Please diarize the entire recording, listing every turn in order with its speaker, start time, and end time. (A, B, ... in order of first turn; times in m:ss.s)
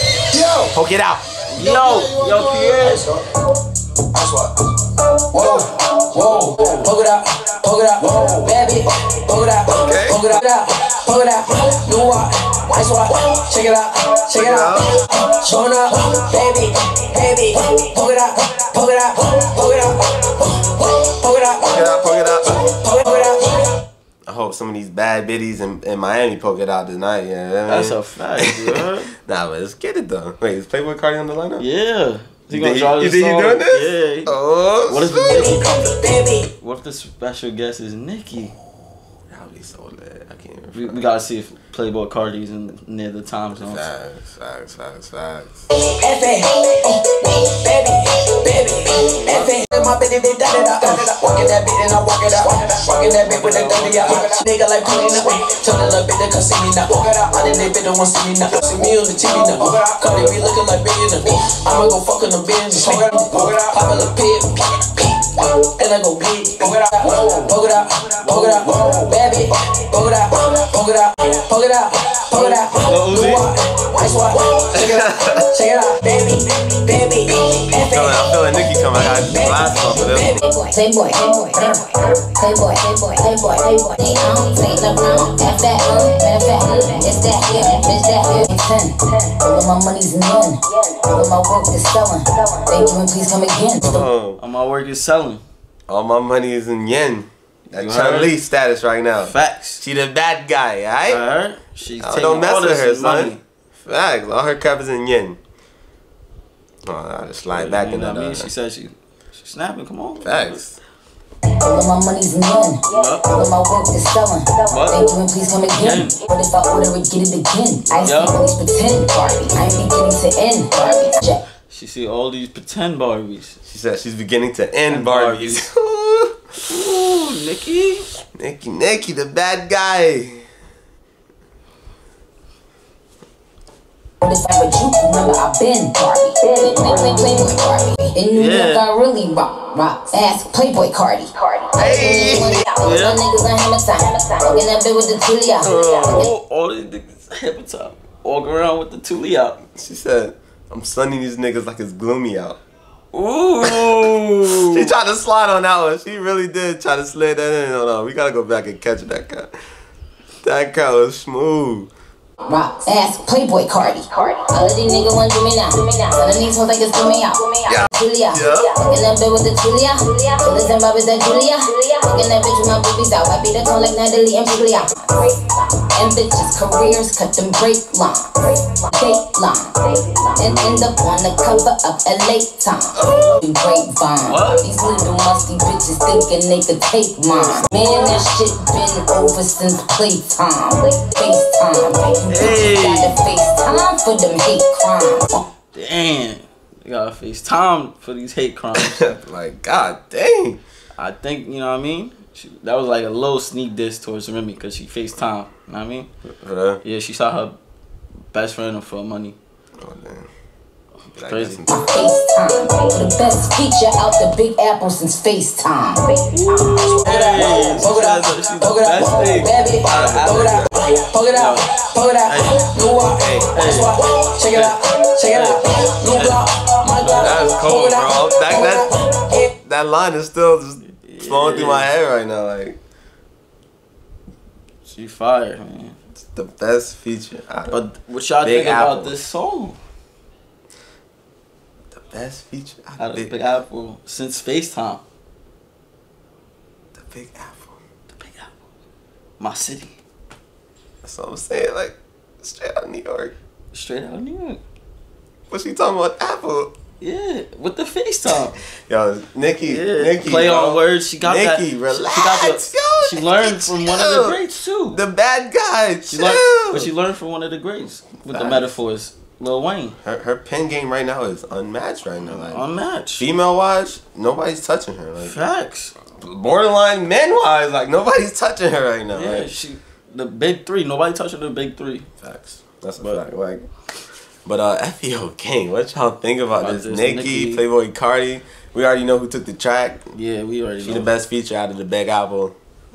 0:00.3-0:00.7 A
0:00.6-0:01.5 B
0:01.5-0:03.2 C
0:01.6-0:23.8 A
0:09.8-0:10.2 B
0:14.3-0:15.0 B
0:21.6-0:22.8 B
0:24.2-0:31.7 B
0:27.6-0:29.1 C
0:31.6-0:34.4 C
0:32.5-0:35.5 B
0:34.9-0:38.5 C
0:35.3-0:36.5 A
0:39.3-0:41.0 B
0:40.7-0:43.8 C
0:43.6-0:45.6 B
0:45.8-1:18.4 A
0:53.2-0:54.4 C
1:12.8-1:13.5 C
1:14.7-1:15.5 B
1:17.8-1:20.4 B
1:19.1-1:20.4 A
1:20.4-1:34.1 D
1:33.8-1:34.4 B
1:34.4-1:35.4 C
1:35.9-1:41.2 B
1:37.8-1:38.4 C
1:39.2-1:39.8 C
1:41.1-1:43.4 C
1:42.0-1:45.4 B
1:46.8-1:48.5 B
1:47.5-1:50.6 C
1:50.2-1:50.8 B
1:51.6-2:01.4 D
1:52.9-1:53.2 C
1:54.7-1:55.0 C
1:55.8-1:56.2 C
1:57.9-1:58.3 C
2:01.7-2:03.6 C
2:03.6-2:06.4 B
2:04.9-2:05.7 C
2:06.7-2:08.1 C
2:08.3-2:10.4 B
2:14.2-2:26.3 D
2:18.3-2:18.8 C
2:21.8-2:22.7 B
2:22.8-2:23.2 C
2:25.6-2:26.3 B
2:25.6-2:29.6 C
2:29.6-2:32.6 B
2:33.1-2:34.9 C
2:33.6-2:39.5 B
2:40.4-2:41.9 B
2:42.5-3:15.4 D
2:47.7-2:48.8 B
3:03.0-3:03.4 B
3:04.2-3:04.6 C
3:12.3-3:13.2 C
3:15.7-3:19.1 C
3:18.7-3:20.6 B
3:21.0-3:26.1 C
3:26.3-3:26.8 B
3:26.8-3:27.6 C
3:28.3-3:29.4 C
3:29.8-3:30.3 B
3:31.1-3:31.8 B
3:31.2-3:31.6 C
3:31.7-3:36.3 D
3:36.3-3:40.6 C
3:36.5-3:49.5 A
3:39.8-3:40.7 B
3:41.3-3:41.7 C
3:42.2-3:42.7 C
3:43.1-3:43.5 B
3:43.5-3:47.4 C
3:47.2-3:52.8 B
3:51.0-3:51.9 C
3:54.8-3:56.0 C
3:56.3-3:57.8 B
3:57.7-3:59.8 C
3:58.4-3:59.1 B
4:01.9-4:03.3 B
4:03.0-4:05.0 C
4:06.9-4:07.8 B
4:08.1-4:08.6 C
4:09.4-4:10.0 C
4:11.0-4:13.3 B
4:13.7-4:14.6 C
4:15.5-4:16.7 B
4:17.0-4:18.6 C
4:18.6-4:26.9 B
4:19.6-4:25.0 C
4:26.1-4:30.0 C
4:28.3-4:28.8 B
4:30.0-4:32.6 B
4:32.2-4:33.2 C
4:33.2-4:35.4 B
4:35.2-4:35.9 C
4:36.1-4:39.5 B
4:39.1-4:42.1 C
4:42.2-4:43.7 B
4:44.4-4:50.1 B
4:46.6-4:47.6 C
4:50.1-4:51.1 C
4:50.8-4:52.5 B